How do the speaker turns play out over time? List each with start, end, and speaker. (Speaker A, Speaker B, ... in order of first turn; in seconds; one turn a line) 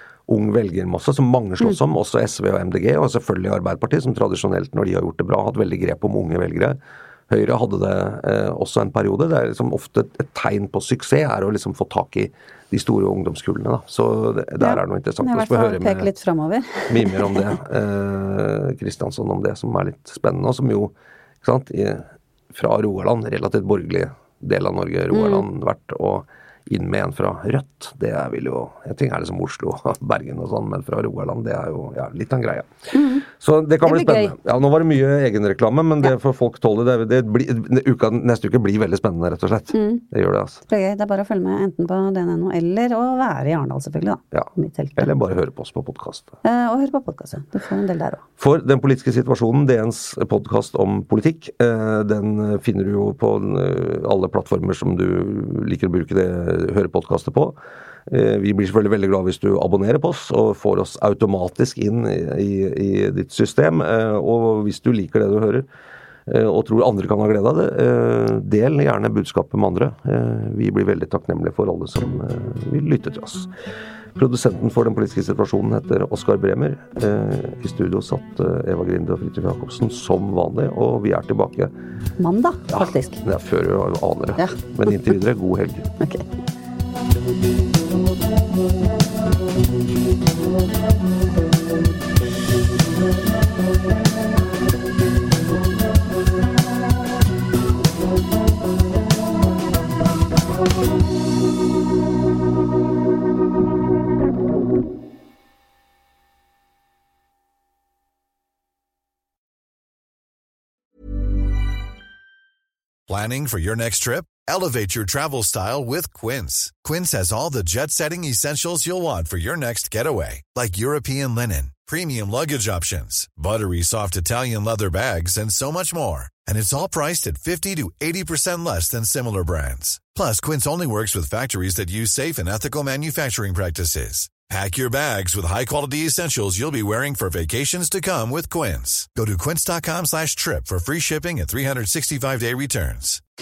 Speaker A: 0.3-6.8
Speaker A: 7.3-16.1
Speaker B: 14.6-17.5
Speaker A: 16.9-32.7
Speaker B: 25.1-25.4
Speaker B: 32.9-33.2
Speaker A: 33.2-40.6
Speaker B: 33.8-34.3
Speaker B: 39.7-40.0
Speaker B: 40.7-45.1
Speaker A: 44.3-46.3
Speaker B: 46.4-48.2
Speaker A: 48.4-57.5
Speaker A: 58.1-65.7
Speaker A: 66.3-73.5
Speaker A: 74.1-81.7
Speaker B: 82.2-83.2
Speaker A: 82.7-85.8
Speaker C: 113.1-143.2